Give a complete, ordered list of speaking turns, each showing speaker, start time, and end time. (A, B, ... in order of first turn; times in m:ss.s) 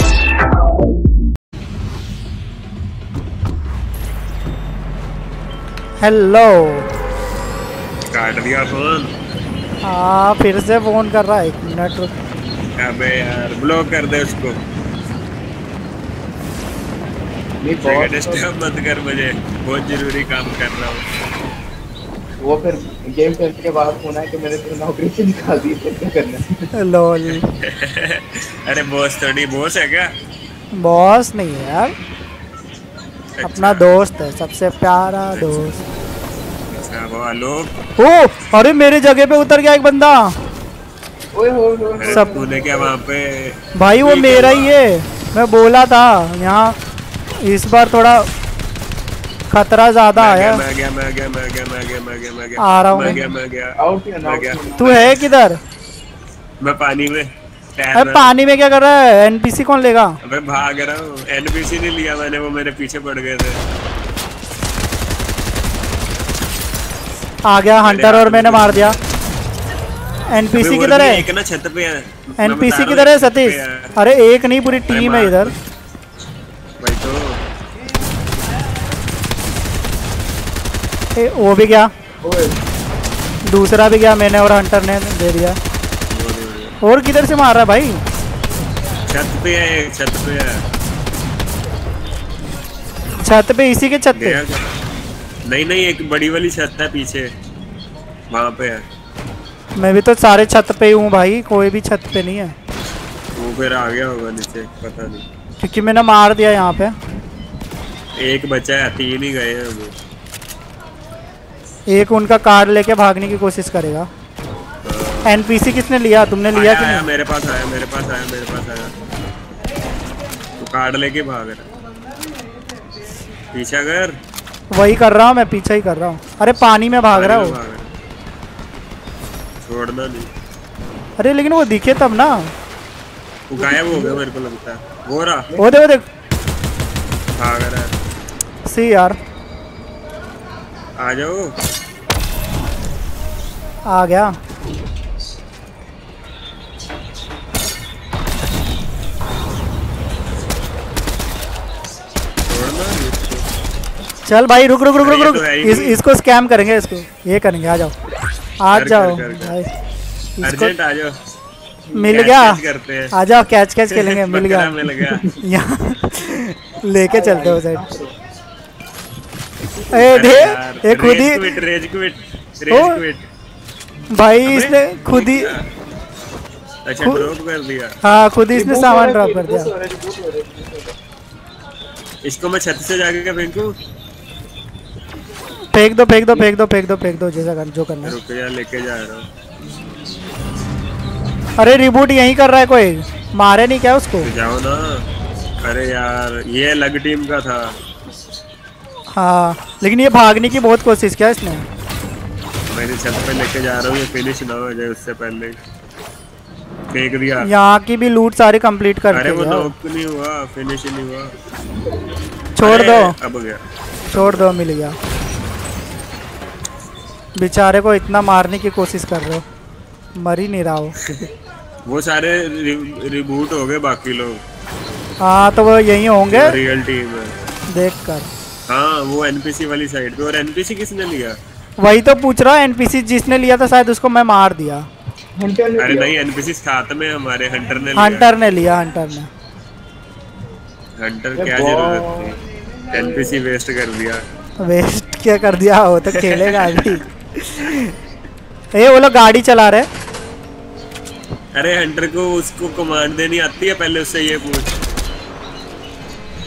0:06.0-0:06.9 A
0:08.1-0:09.1 B
0:09.8-0:12.1 A
0:12.8-0:14.6 B
0:17.6-0:18.4 C
0:17.8-0:21.0 B
0:22.4-0:26.7 C
0:26.8-0:27.5 A
0:27.3-0:30.1 B
0:30.8-0:31.9 A
0:33.4-0:33.8 B
0:33.4-0:35.8 A
0:35.3-0:35.6 B
0:36.7-0:37.7 B
0:38.0-0:40.3 A
0:41.3-0:42.9 C
0:42.0-0:44.7 B
0:42.1-0:42.4 A
0:43.8-0:46.8 A
0:47.4-0:48.3 A
0:49.5-0:50.6 A
0:50.2-0:55.1 B
0:52.6-0:53.2 A
0:53.8-0:55.1 C
0:54.8-0:55.6 A
0:56.6-0:58.3 B
0:58.0-1:00.2 A
1:00.2-1:03.6 B
1:07.5-1:09.0 A
1:07.8-1:09.0 B
1:10.4-1:11.2 A
1:10.6-1:13.9 B
1:12.4-1:15.5 A
1:14.9-1:15.6 B
1:16.8-1:17.3 B
1:21.2-1:21.9 A
1:22.2-1:22.6 C
1:23.5-1:25.6 A
1:26.1-1:26.8 B
1:26.8-1:28.0 A
1:29.1-1:30.6 B
1:33.2-1:34.4 A
1:34.2-1:34.7 B
1:35.5-1:37.3 B
1:38.3-1:38.8 B
1:39.8-1:42.6 A
1:43.4-1:45.2 B
1:45.6-1:46.9 A
1:48.2-1:49.9 B
1:51.9-1:54.1 A
1:54.8-1:55.5 B
1:55.3-1:57.1 A
1:56.5-1:58.9 B
2:00.6-2:01.7 B
2:03.5-2:04.1 B
2:04.8-2:07.6 A
2:07.1-2:07.9 B
2:09.6-2:10.3 B
2:11.2-2:12.5 A
2:13.5-2:15.5 B
2:13.6-2:14.2 C
2:15.6-2:16.0 A
2:17.4-2:17.9 B
2:18.7-2:19.2 A
2:21.0-2:21.5 B
2:23.9-2:24.3 A
2:32.5-2:33.4 B
2:34.3-2:37.9 A
2:35.0-2:36.0 B
2:38.6-2:39.7 A
2:38.7-2:39.6 B
2:40.4-2:40.7 A
2:40.4-2:41.2 B
2:42.0-2:44.8 A
2:42.1-2:43.1 B
2:43.9-2:45.2 B
2:45.4-2:47.8 A
2:47.0-2:48.2 C
2:49.9-2:51.5 A
2:50.0-2:53.3 B
2:52.7-2:53.0 A
2:54.2-2:55.5 A
2:54.4-2:55.6 B
2:56.9-2:58.0 B
2:58.0-2:59.7 A
2:58.5-3:01.0 C
3:02.2-3:03.7 B
3:05.7-3:08.2 A
3:08.0-3:09.3 B
3:11.6-3:14.3 A
3:14.2-3:15.0 B
3:15.6-3:17.7 B
3:19.2-3:21.6 A
3:22.7-3:25.6 B
3:26.9-3:27.5 B
3:27.4-3:29.7 A
3:29.1-3:31.3 B
3:32.6-3:33.2 A
3:32.6-3:34.5 B
3:34.1-3:35.0 A
3:37.4-3:39.4 A
3:40.2-3:40.9 A
3:41.9-3:44.4 B
3:45.2-3:46.6 A
3:46.3-3:47.4 B
3:47.7-3:48.3 A
3:48.7-3:51.4 B
3:51.8-3:54.8 A
3:55.4-3:56.3 C
3:55.8-3:58.3 B
3:58.0-3:59.3 A
4:01.0-4:02.4 B
4:01.4-4:02.4 C
4:02.9-4:04.2 B
4:04.7-4:07.9 A
4:06.2-4:07.0 B
4:08.8-4:09.9 A
4:11.5-4:14.8 B